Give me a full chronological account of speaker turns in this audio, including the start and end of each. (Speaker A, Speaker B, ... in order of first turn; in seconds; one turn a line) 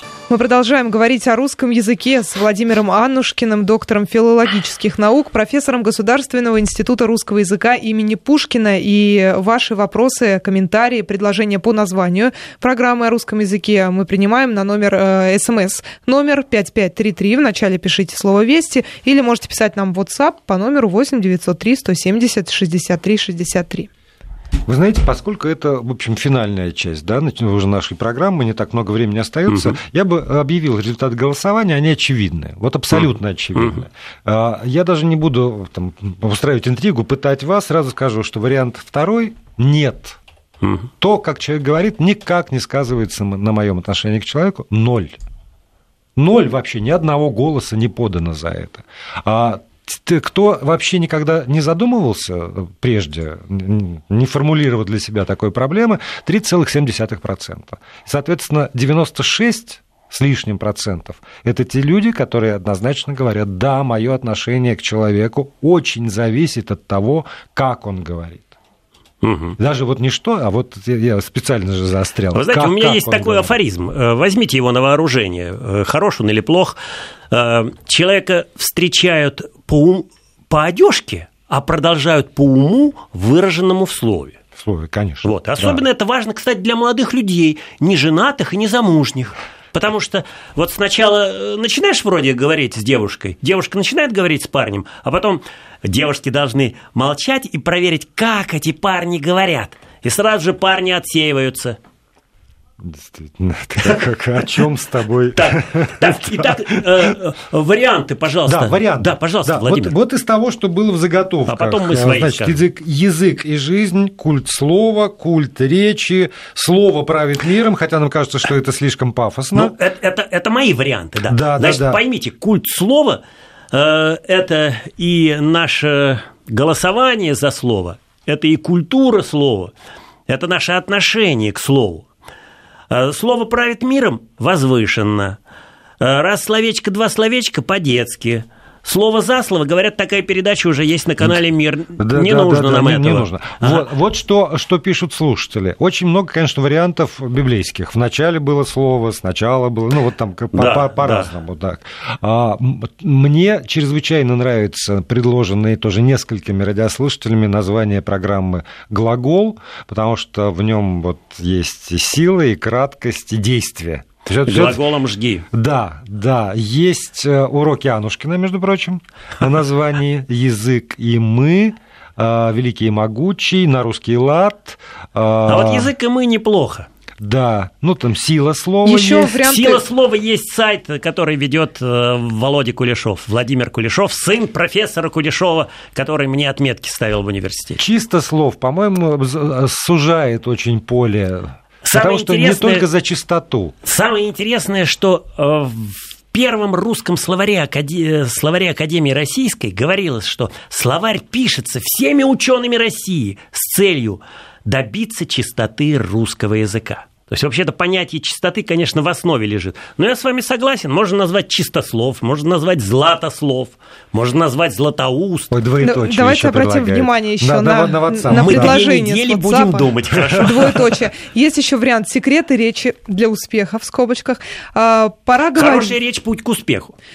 Speaker A: 0.3-23.9
Speaker B: 24.7-40.2
Speaker C: 29.5-29.8
Speaker C: 33.5-33.8
Speaker C: 40.6-40.9
Speaker B: 41.0-45.2
Speaker B: 46.1-68.5
Speaker C: 69.2-69.6
Speaker B: 69.6-73.5
Speaker C: 72.3-76.8
Speaker C: 77.3-84.4
Speaker B: 84.5-85.8
Speaker C: 85.2-101.8
Speaker B: 102.8-107.1
Speaker C: 105.3-109.9
Speaker B: 108.5-119.7
Speaker C: 111.5-112.6
Speaker C: 119.5-123.2
Speaker B: 121.3-122.0
Speaker C: 123.7-129.7
Speaker C: 130.3-132.1
Speaker C: 132.9-135.4
Speaker C: 136.0-143.9
Speaker B: 142.0-164.8
Speaker C: 150.5-151.3
Speaker C: 164.4-165.4
Speaker B: 165.5-175.9
Speaker C: 175.4-176.9
Speaker B: 177.2-179.4
Speaker A: 178.8-179.8
Speaker C: 179.4-187.8
Speaker B: 187.8-193.7
Speaker C: 191.8-192.8
Speaker C: 193.8-215.5
Speaker B: 215.5-218.8
Speaker A: 215.8-225.9
Speaker C: 218.3-220.8
Speaker B: 220.1-220.4
Speaker C: 225.5-226.9